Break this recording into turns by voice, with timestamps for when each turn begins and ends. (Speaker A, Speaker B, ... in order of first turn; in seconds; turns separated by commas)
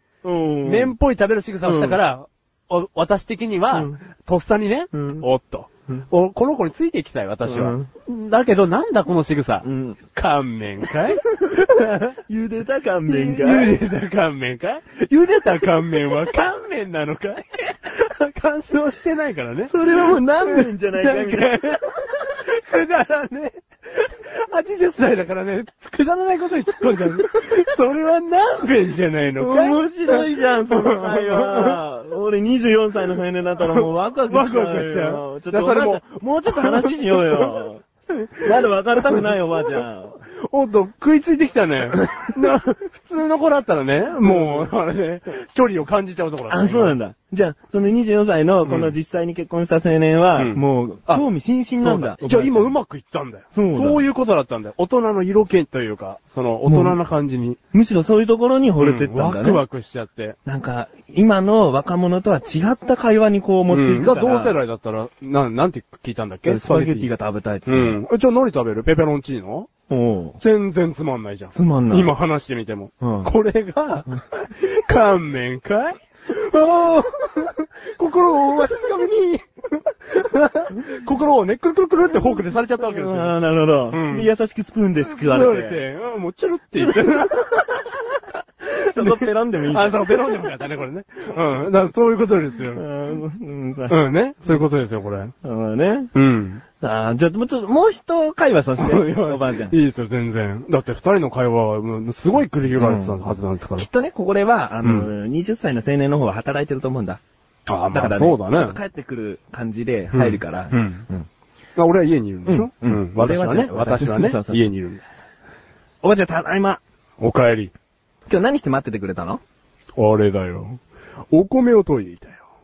Speaker A: 0.2-0.9, Speaker B: 0.6-12.2, Speaker A: 1.6-2.0, Speaker A: 4.9-5.2, Speaker A: 7.5-7.9, Speaker A: 9.6-10.0, Speaker A: 12.3-13.8, Speaker B: 13.1-31.8, Speaker A: 19.7-21.8, Speaker A: 29.4-37.8, Speaker B: 33.6-38.5, Speaker A: 38.4-40.2, Speaker B: 39.1-47.0, Speaker A: 44.2-44.7, Speaker A: 46.5-52.8, Speaker B: 48.6-48.9, Speaker B: 50.4-51.3, Speaker B: 51.8-57.6, Speaker A: 53.5-54.1, Speaker A: 56.7-57.0, Speaker A: 57.7-59.6, Speaker B: 58.8-60.4, Speaker A: 60.5-64.6, Speaker B: 63.7-67.1, Speaker A: 66.5-68.0, Speaker B: 67.7-69.7, Speaker A: 69.9-70.4, Speaker B: 70.4-83.3, Speaker A: 71.5-72.1, Speaker A: 73.0-73.3, Speaker A: 82.9-85.8, Speaker B: 83.9-84.3, Speaker B: 85.0-92.8, Speaker A: 88.8-90.2, Speaker A: 92.7-94.0, Speaker B: 93.9-95.3, Speaker A: 95.4-96.1, Speaker B: 96.1-96.6, Speaker A: 96.8-99.8, Speaker B: 98.8-103.9, Speaker A: 102.8-107.2, Speaker B: 104.8-105.1, Speaker B: 107.7-108.8, Speaker A: 107.9-111.3, Speaker B: 110.1-111.0, Speaker B: 111.8-115.2, Speaker A: 112.5-114.6, Speaker A: 116.0-116.8, Speaker B: 117.2-117.7, Speaker A: 118.3-119.4, Speaker B: 120.0-122.5